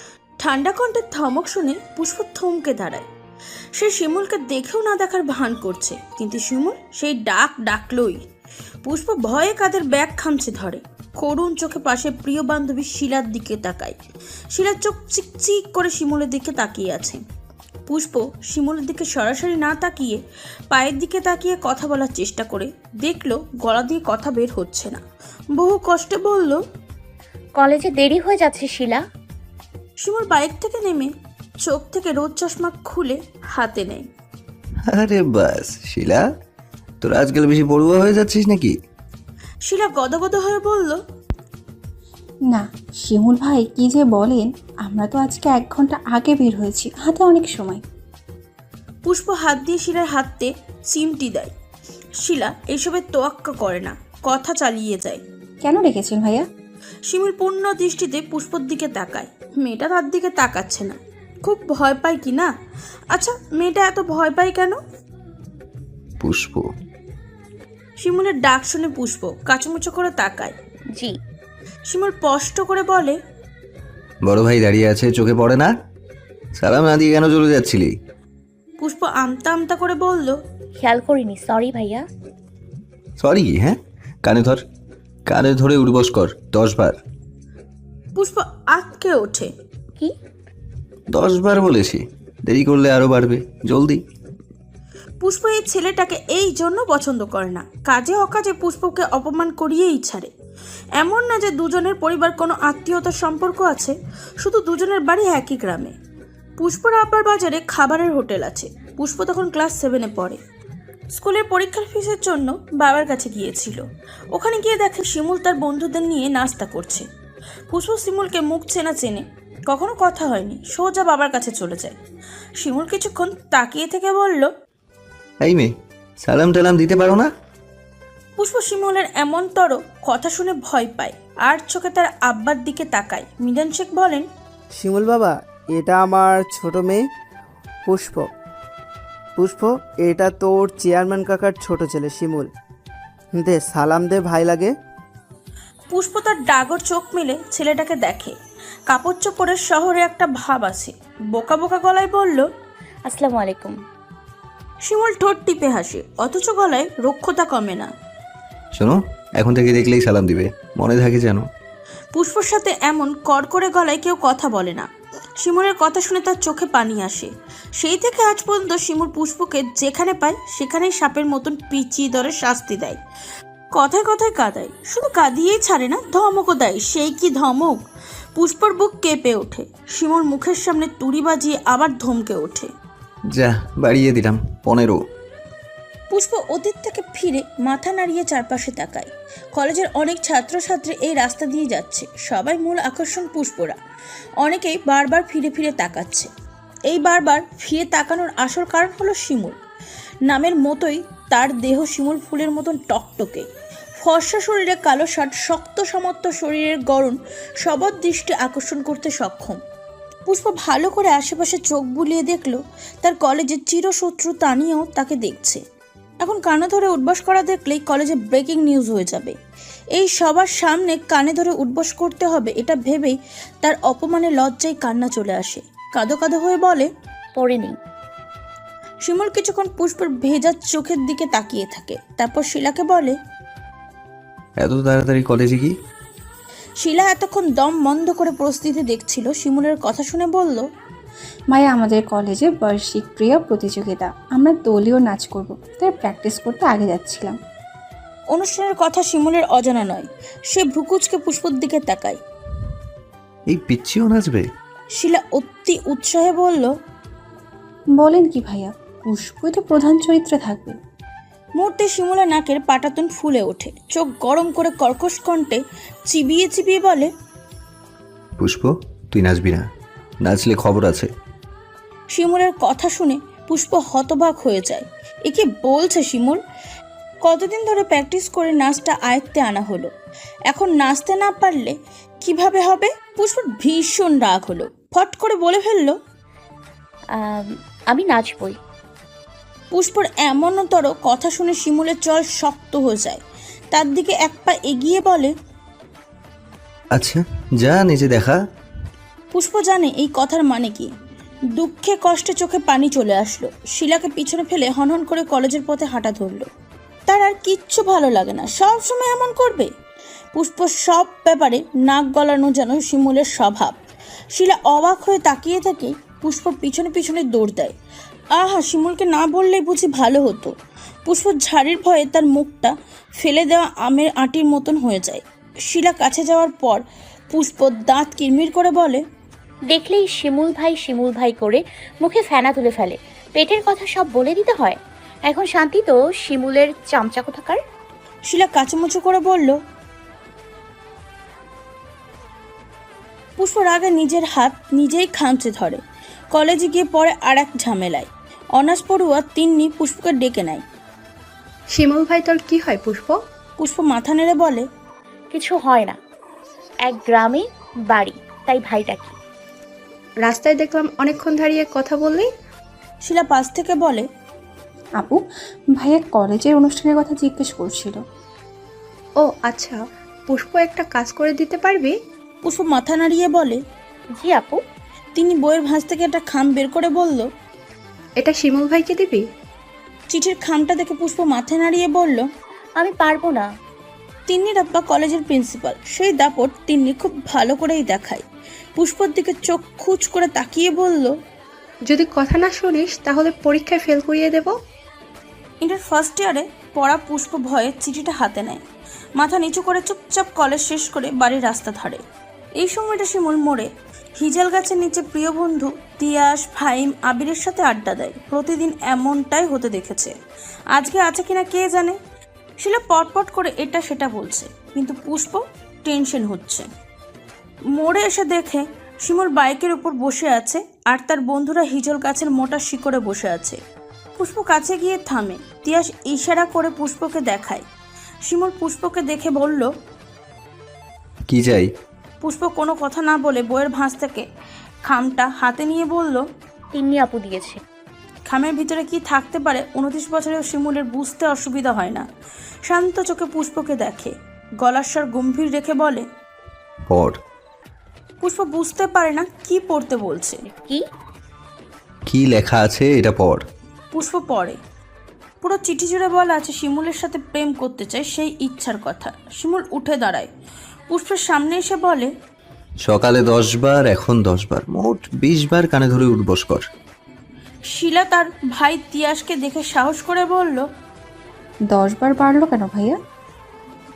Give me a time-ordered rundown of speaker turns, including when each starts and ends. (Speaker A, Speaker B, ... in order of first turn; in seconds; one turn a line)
Speaker A: 0.4-3.0
Speaker A: 3.8-8.2
Speaker A: 8.8-14.0
Speaker A: 14.5-17.2
Speaker A: 17.9-25.0
Speaker A: 25.5-26.6
Speaker B: 27.6-29.0
Speaker A: 30.0-34.1
Speaker C: 34.9-36.3
Speaker C: 37.0-38.8
Speaker A: 39.6-41.0
Speaker D: 42.5-47.8
Speaker A: 49.0-51.5
Speaker A: 52.2-55.2
Speaker D: 55.6-56.5
Speaker A: 57.1-62.5
Speaker A: 63.1-64.8
Speaker C: 66.2-66.7
Speaker A: 68.0-70.5
Speaker A: 71.9-73.2
Speaker C: 74.2-75.7
Speaker C: 76.6-78.0
Speaker A: 78.8-80.4
Speaker B: 80.8-82.0
Speaker C: 83.2-84.6
Speaker C: 85.3-87.0
Speaker A: 88.1-89.5
Speaker C: 91.1-94.0
Speaker A: 95.2-100.3
Speaker A: 101.0-105.9
Speaker A: 106.6-110.4
Speaker A: 111.1-117.1
Speaker A: 117.7-122.0
Speaker A: 122.6-124.5
Speaker C: 125.4-127.3
Speaker A: 128.4-134.3
Speaker E: 134.7-137.0
Speaker E: 137.8-138.3
Speaker E: 139.4-142.5
Speaker E: 143.3-144.7
Speaker A: 145.9-148.3
Speaker A: 148.9-152.5
Speaker B: 153.1-153.8
Speaker A: 154.8-157.9
Speaker C: 158.7-161.4
Speaker A: 162.1-173.0
Speaker A: 173.7-177.8
Speaker A: 178.3-182.7
Speaker C: 183.3-185.0
Speaker A: 186.1-193.8
Speaker A: 194.4-196.3
Speaker A: 196.9-199.6
Speaker A: 200.2-209.6
Speaker A: 210.3-215.6
Speaker A: 216.2-219.3
Speaker A: 219.9-226.9
Speaker B: 227.3-227.8
Speaker A: 229.0-233.2
Speaker C: 234.6-235.7
Speaker A: 236.8-240.7
Speaker D: 241.5-247.4
Speaker A: 248.3-252.2
Speaker C: 253.5-254.5
Speaker A: 254.9-256.7
Speaker D: 257.9-260.8
Speaker A: 261.6-267.1
Speaker C: 268.4-269.7
Speaker C: 270.2-271.1
Speaker A: 272.1-276.4
Speaker A: 277.2-279.9
Speaker A: 280.5-286.0
Speaker B: 287.1-288.6
Speaker A: 289.7-293.2
Speaker A: 293.7-295.3
Speaker C: 296.9-298.4
Speaker A: 299.3-300.9
Speaker A: 301.5-306.5
Speaker A: 307.1-309.7
Speaker A: 310.3-313.8
Speaker A: 314.3-317.7
Speaker A: 318.3-320.5
Speaker A: 321.1-329.0
Speaker B: 329.7-337.6
Speaker A: 338.3-339.6
Speaker A: 343.4-345.8
Speaker A: 346.3-350.6
Speaker F: 351.7-353.2
Speaker A: 353.6-354.7
Speaker B: 355.3-356.0
Speaker B: 356.8-359.1
Speaker F: 360.2-362.3
Speaker A: 363.0-364.1
Speaker D: 365.7-368.0
Speaker F: 369.2-372.0
Speaker A: 372.4-373.6
Speaker B: 374.1-374.6
Speaker A: 375.1-377.3
Speaker F: 378.2-379.2
Speaker A: 380.1-382.3
Speaker B: 382.8-383.5
Speaker A: 384.3-388.2
Speaker A: 388.8-391.2
Speaker F: 391.9-394.6
Speaker A: 395.6-398.6
Speaker A: 399.2-402.0
Speaker A: 402.6-410.1
Speaker A: 410.7-412.0
Speaker A: 412.6-416.7
Speaker A: 417.7-423.6
Speaker A: 424.2-427.6
Speaker A: 428.2-429.7
Speaker C: 431.3-431.7
Speaker A: 432.2-434.2
Speaker A: 434.9-436.3
Speaker B: 436.7-437.6
Speaker A: 438.3-442.1
Speaker A: 442.7-446.1
Speaker C: 446.9-447.2
Speaker A: 448.2-450.4
Speaker B: 450.5-450.9
Speaker C: 452.1-453.4
Speaker A: 453.9-454.6
Speaker A: 455.4-460.3
Speaker A: 460.9-462.1
Speaker C: 462.8-466.7
Speaker A: 467.7-470.7
Speaker D: 471.7-473.0